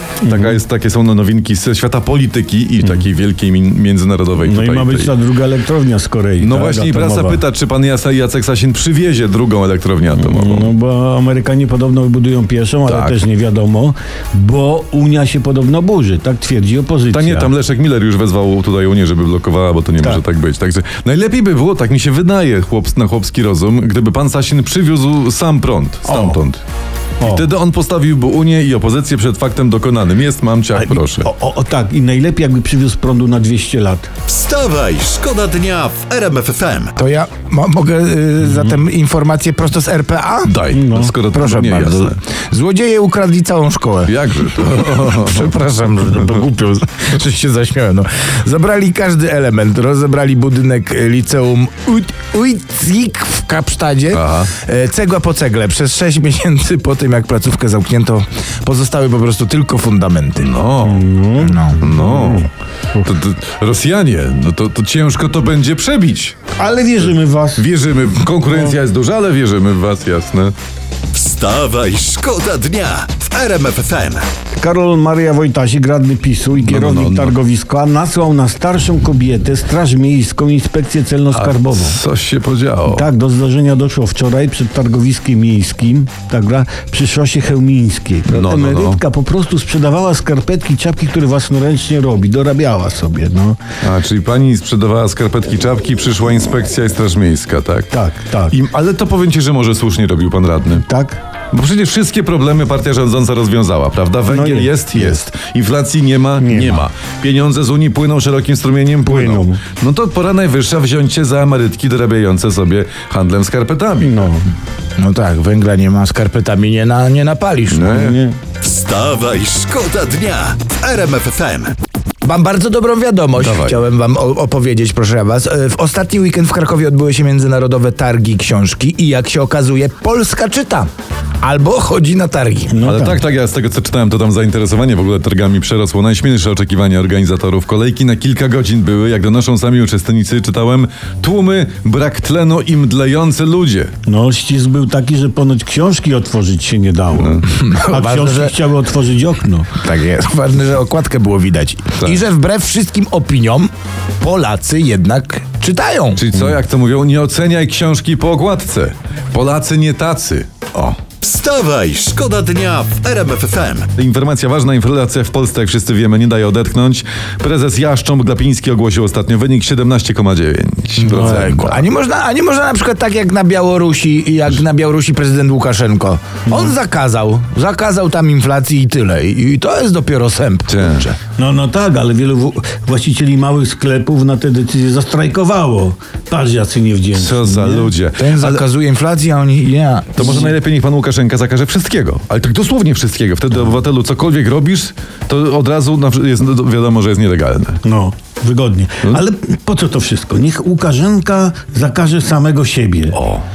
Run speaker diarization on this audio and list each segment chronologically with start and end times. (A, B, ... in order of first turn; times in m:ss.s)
0:00.2-0:00.6 A
0:00.2-0:05.1 B
0:04.4-0:07.4 A
0:06.4-0:10.7 B
0:10.2-0:17.5 A
0:12.9-0:13.2 B
0:17.1-0:26.6 B
0:26.0-0:26.4 A
0:27.2-0:31.3 B
0:30.8-0:34.1 A
0:34.3-0:36.9 C
0:37.0-0:40.6 D
0:40.4-0:42.2 B
0:40.7-0:41.2 A
0:41.3-1:00.5 D
0:44.1-0:45.5 B
0:54.1-0:54.5 B
1:00.4-1:01.0 B
1:00.8-1:03.0 A
1:01.4-1:01.8 D
1:01.8-1:02.5 B
1:03.0-1:06.4 B
1:06.6-1:07.6 A
1:07.6-1:10.5 B
1:11.1-1:14.2 C
1:14.6-1:22.0 A
1:16.5-1:17.4 B
1:21.3-1:23.0 B
1:22.9-1:33.6 A
1:28.3-1:29.0 B
1:33.8-1:37.9 B
1:37.9-1:38.6 A
1:38.5-1:40.8 B
1:40.8-1:41.2 A
1:41.5-1:54.3 B
1:44.3-1:45.2 A
1:46.4-1:46.8 A
1:49.0-1:49.6 A
1:54.0-1:54.5 A
1:55.0-1:57.9 D
1:57.7-1:58.2 B
1:57.9-1:58.4 A
1:58.6-2:01.7 C
2:02.2-2:12.8 D
2:03.4-2:03.9 B
2:12.7-2:13.2 A
2:12.8-2:23.9 B
2:24.0-2:29.7 A
2:27.2-2:27.4 B
2:27.5-2:28.5 D
2:29.8-2:36.2 D
2:36.1-2:41.0 B
2:41.2-2:43.9 C
2:44.0-2:51.9 B
2:51.0-2:51.5 A
2:51.0-3:01.2 D
3:00.7-3:01.1 B
3:01.4-3:07.9 A
3:07.1-3:08.6 B
3:08.2-3:10.5 D
3:10.1-3:17.8 B
3:17.8-3:23.2 A
3:23.1-3:23.4 B